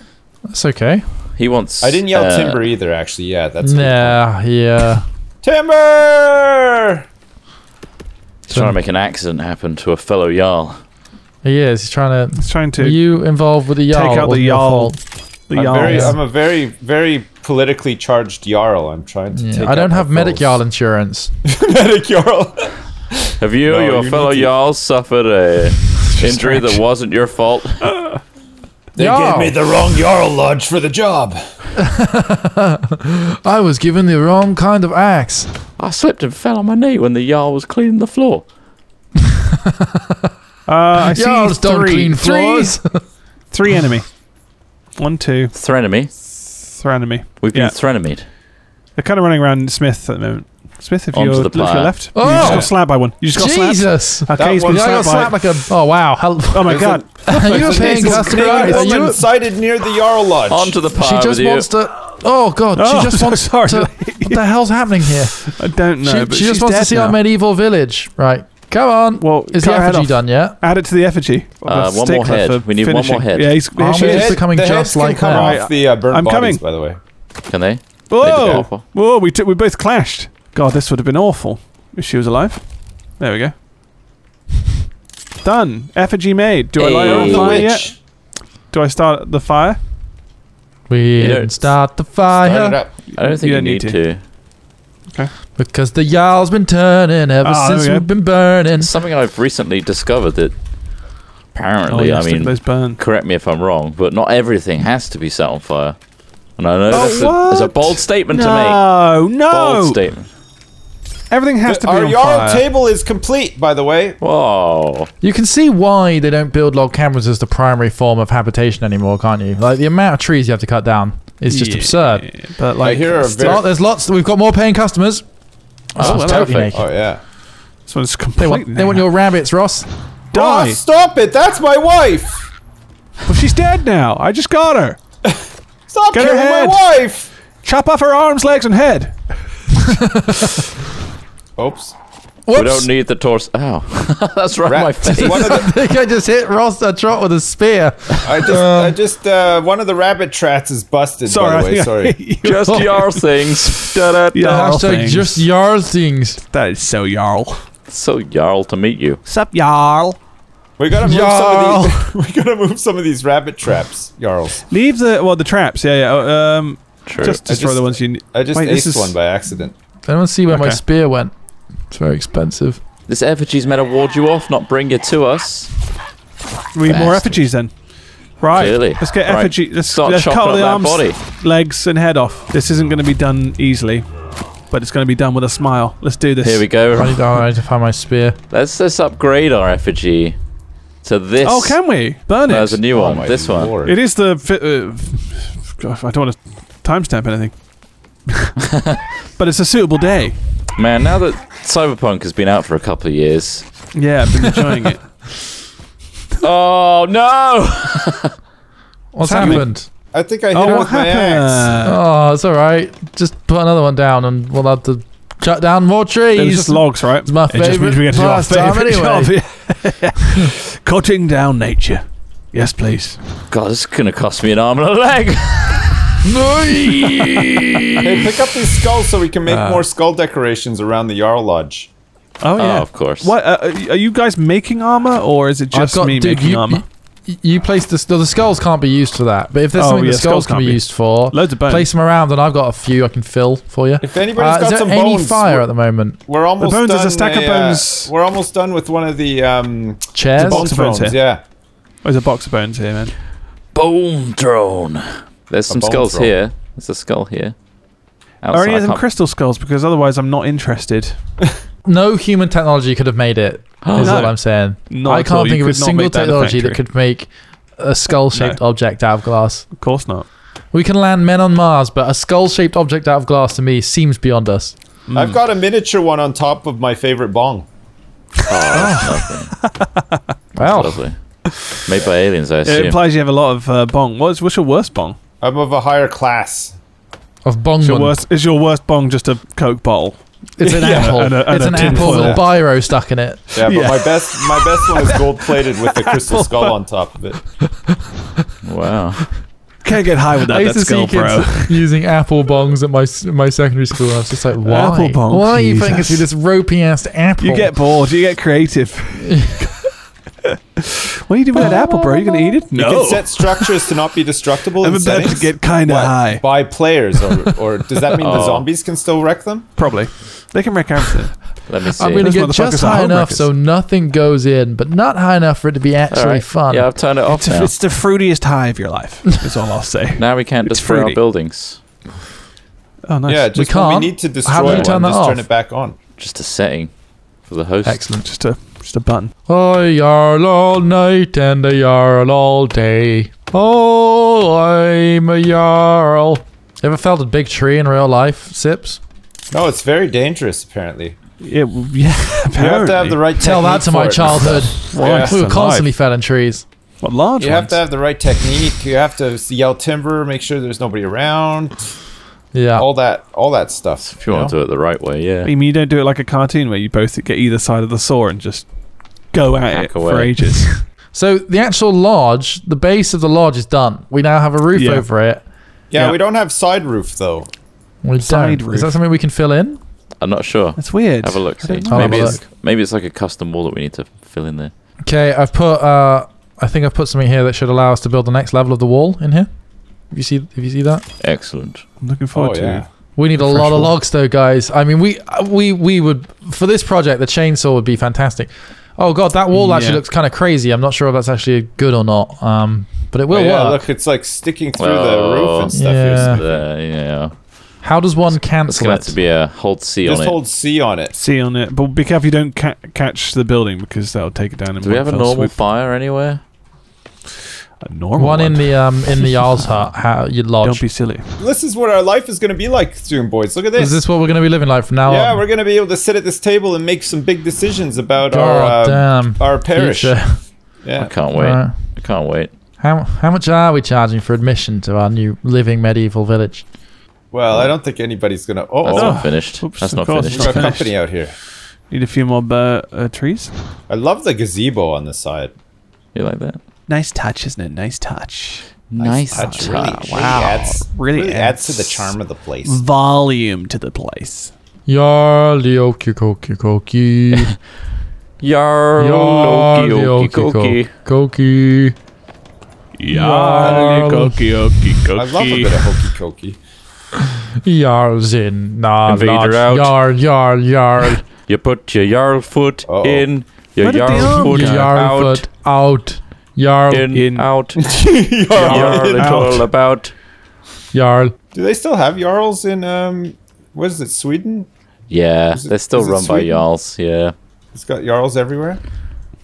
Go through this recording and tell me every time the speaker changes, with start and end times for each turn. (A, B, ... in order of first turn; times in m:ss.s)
0:00.5-0:01.1 A
0:01.4-0:02.6 B
0:01.8-0:04.2 C
0:03.6-0:05.0 A
0:05.4-0:07.0 C
0:08.4-0:10.8 B
0:08.5-0:08.8 A
0:11.4-0:15.1 A
0:12.3-0:16.2 D
0:15.5-0:20.6 C
0:15.8-0:16.2 A
0:19.3-0:21.3 A
0:21.4-0:24.5 C
0:23.4-0:27.9 B
0:26.2-0:26.6 D
0:27.8-0:28.2 D
0:29.0-0:31.4 C
0:29.0-0:29.6 A
0:31.8-0:35.5 A
0:35.8-0:38.5 B
0:40.6-0:42.8 D
0:41.0-0:43.1 A
0:43.5-0:45.5 D
0:45.5-0:46.1 B
0:46.5-0:47.9 D
0:47.4-0:48.2 B
0:48.9-0:59.1 D
0:51.1-0:52.2 B
0:52.1-0:59.3 A
0:52.3-0:52.7 C
0:54.3-0:55.3 C
0:56.6-1:00.8 C
1:00.5-1:01.7 B
1:00.9-1:10.6 A
1:02.7-1:04.4 D
1:05.1-1:07.2 D
1:09.2-1:14.4 D
1:11.6-1:13.7 B
1:13.8-1:15.6 A
1:13.9-1:17.0 C
1:15.3-1:16.6 D
1:17.4-1:18.8 B
1:18.1-1:23.6 D
1:25.4-1:29.8 D
1:26.8-1:27.9 B
1:27.0-1:28.0 C
1:30.9-1:32.8 A
1:31.2-1:31.9 B
1:32.3-1:33.0 C
1:33.1-1:34.1 D
1:33.1-1:34.2 B
1:35.6-1:38.9 A
1:37.4-1:38.1 D
1:38.7-1:40.6 B
1:41.5-1:46.0 B
1:41.8-1:43.0 D
1:46.6-1:50.3 B
1:46.9-1:50.0 D
1:46.9-1:47.3 C
1:51.3-1:52.7 D
1:51.6-1:54.2 C
1:54.2-1:55.1 B
1:55.2-2:02.5 A
2:01.5-2:03.7 D
2:02.8-2:03.6 C
2:03.2-2:05.3 A
2:05.9-2:06.9 A
2:06.0-2:06.8 B
2:06.0-2:06.7 D
2:06.7-2:07.2 C
2:07.8-2:09.1 D
2:08.4-2:09.9 A
2:10.3-2:10.8 D
2:10.3-2:12.5 C
2:13.2-2:15.0 D
2:15.2-2:17.3 C
2:16.1-2:17.0 D
2:17.6-2:19.8 D
2:21.6-2:21.9 C
2:22.4-2:22.9 A
2:22.5-2:25.6 B
2:24.6-2:25.7 C
2:25.0-2:29.0 A
2:28.2-2:32.3 C
2:31.2-2:33.2 D
2:32.3-2:34.6 B
2:32.6-2:32.9 A
2:33.7-2:35.4 D
2:34.4-2:36.4 A
2:36.5-2:37.7 D
2:37.9-2:39.2 B
2:39.2-2:40.2 D
2:40.8-2:44.6 C
2:41.0-2:42.1 A
2:44.7-2:49.3 D
2:47.0-2:47.4 B
2:47.3-2:49.7 C
2:50.0-2:52.8 A
2:50.5-2:50.8 D
2:53.1-2:55.7 B
2:56.7-3:04.1 D
2:56.8-2:57.5 B
2:58.5-3:01.2 B
3:04.6-3:06.7 D
3:06.4-3:07.4 B
3:07.0-3:08.4 A
3:08.5-3:10.4 B
3:11.0-3:11.9 B
3:11.4-3:12.8 D
3:12.4-3:13.8 B
3:12.9-3:14.0 C
3:13.8-3:18.5 D
3:19.3-3:20.4 D
3:20.8-3:24.0 B
3:23.9-3:25.1 D
3:26.4-3:28.3 B
3:29.1-3:29.9 A
3:29.2-3:29.9 D
3:30.1-3:31.8 C
3:30.5-3:32.0 D
3:31.8-3:39.5 A
3:36.3-3:43.2 D
3:43.5-3:48.1 B
3:46.2-3:47.3 A
3:48.0-3:51.9 C
3:49.4-3:49.9 D
3:52.4-3:56.8 D
3:52.6-3:53.3 B
3:55.7-4:06.2 A
3:59.7-4:01.9 D
4:04.0-4:11.4 C
4:06.6-4:08.1 D
4:10.1-4:10.7 A
4:10.3-4:11.3 D
4:12.0-4:13.1 D
4:13.7-4:17.5 B
4:15.7-4:16.4 C
4:18.4-4:19.1 B
4:18.5-4:21.2 D
4:21.8-4:29.9 A
4:23.8-4:24.2 B
4:24.0-4:26.8 D
4:28.3-4:28.6 D
4:29.7-4:30.3 D
4:30.7-4:34.8 A
4:35.1-4:35.4 D
4:35.1-4:37.7 C
4:38.4-4:39.5 B
4:38.7-4:39.1 A
4:38.8-4:40.2 D
4:40.6-4:41.0 A
4:40.6-4:43.0 B
4:42.6-4:45.2 D
4:45.4-4:46.8 C
4:47.4-4:48.2 A
4:47.8-4:52.5 D
4:50.6-4:53.4 A
4:50.7-4:52.5 C
4:53.5-4:56.9 D
4:53.5-4:57.5 C
4:58.6-4:59.4 B
4:59.8-5:01.8 D
5:00.5-5:07.8 A
5:04.6-5:06.3 D
5:07.4-5:10.0 D
5:09.3-5:09.6 A
5:11.2-5:13.9 D
5:11.5-5:12.6 A
5:12.7-5:19.7 C
5:14.8-5:17.6 D
5:18.2-5:18.7 B
5:19.8-5:23.5 D
5:21.6-5:22.3 B
5:22.0-5:26.9 A
5:26.1-5:27.8 B
5:27.3-5:31.2 D
5:30.1-5:31.8 B
5:33.0-5:33.5 D
5:33.2-5:36.0 C
5:33.5-5:35.5 A
5:34.6-5:35.0 B
5:36.2-5:38.1 B
5:37.8-5:38.3 A
5:38.2-5:39.3 D
5:39.5-5:49.0 A
5:49.5-5:51.2 C
5:51.4-5:53.3 D
5:52.5-5:55.4 C
5:53.4-5:56.7 A
5:54.9-5:55.9 D
5:57.0-5:57.9 D
5:57.4-6:01.9 C
6:02.5-6:02.9 A
6:02.7-6:04.5 C
6:04.0-6:05.5 B
6:05.4-6:10.8 D
6:09.7-6:10.6 B
6:11.1-6:15.4 A
6:14.7-6:15.1 D
6:15.9-6:17.5 C
6:18.0-6:19.8 A
6:18.2-6:19.0 D
6:20.2-6:24.7 B
6:20.8-6:22.4 D
6:21.9-6:22.4 A
6:25.0-6:31.1 A
6:31.2-6:31.8 B
6:32.0-6:33.9 D
6:32.3-6:32.9 C
6:33.2-6:43.9 A
6:39.5-6:40.0 D
6:43.3-6:46.7 C
6:44.8-6:47.3 B
6:45.7-6:46.4 A
6:47.8-6:49.2 A
6:48.5-6:50.4 B
6:50.0-6:51.1 C
6:51.1-6:55.6 D
6:54.8-6:56.4 B
6:57.8-6:59.8 D
6:58.2-7:00.9 A
7:00.6-7:01.3 D
7:01.4-7:04.0 C
7:03.8-7:05.4 A
7:05.0-7:11.1 C
7:08.2-7:12.2 A
7:10.9-7:12.5 B
7:12.8-7:16.7 A
7:17.3-7:19.1 C
7:17.5-7:17.7 B
7:18.8-7:20.8 B
7:18.9-7:23.5 D
7:20.3-7:21.4 C
7:23.9-7:25.5 C
7:26.1-7:26.6 B
7:26.9-7:34.5 D
7:28.9-7:30.5 B
7:29.0-7:32.8 C
7:34.8-7:37.5 A
7:38.4-7:40.9 B
7:39.0-7:42.0 A
7:43.0-7:45.8 D
7:43.1-7:44.4 A
7:45.1-7:45.8 B
7:45.1-7:46.6 C
7:47.6-7:51.2 A
7:49.0-7:50.1 B
7:51.0-7:55.5 B
7:52.8-7:53.3 C
7:53.8-7:54.9 D
7:54.2-7:57.3 A
7:56.9-7:57.8 B
7:57.1-7:57.5 D
7:57.8-7:59.6 C
7:58.4-8:00.1 B
7:58.5-7:59.7 D
8:00.9-8:01.3 A
8:01.5-8:04.7 C
8:05.1-8:07.3 B
8:05.5-8:06.6 C
8:07.7-8:08.8 C